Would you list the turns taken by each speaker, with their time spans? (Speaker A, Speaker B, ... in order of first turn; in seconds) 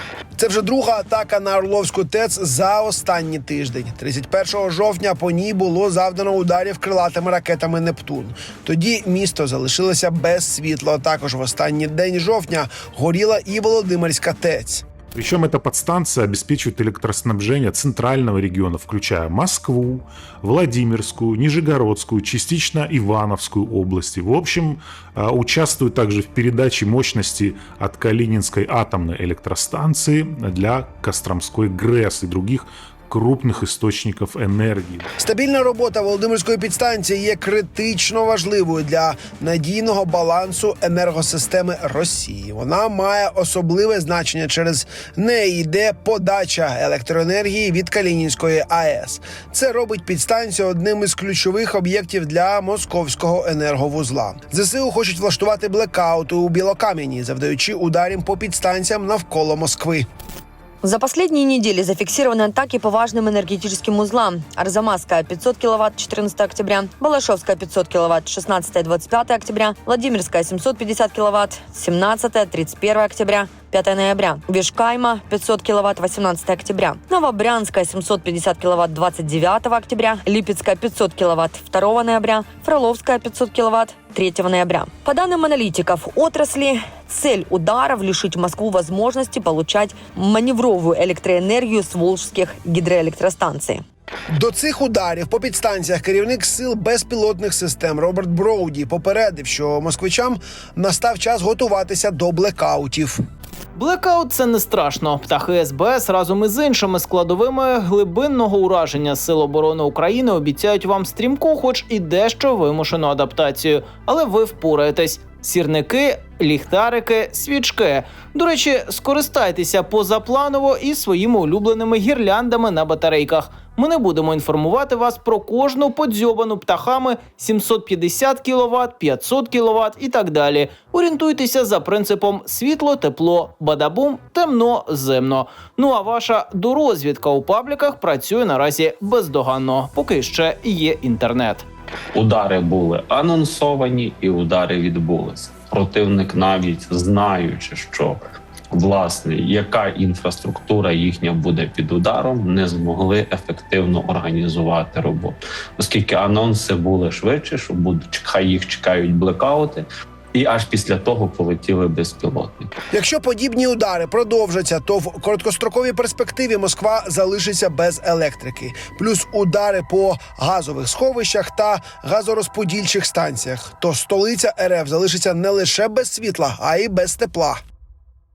Speaker A: 0.3-14.8, 35.2-60.1, 94.3-103.2, 162.9-177.6
Speaker B: 15.1-35.1
Speaker C: 60.8-93.8
Speaker D: 103.7-141.7
Speaker E: 142.1-148.2, 148.7-162.7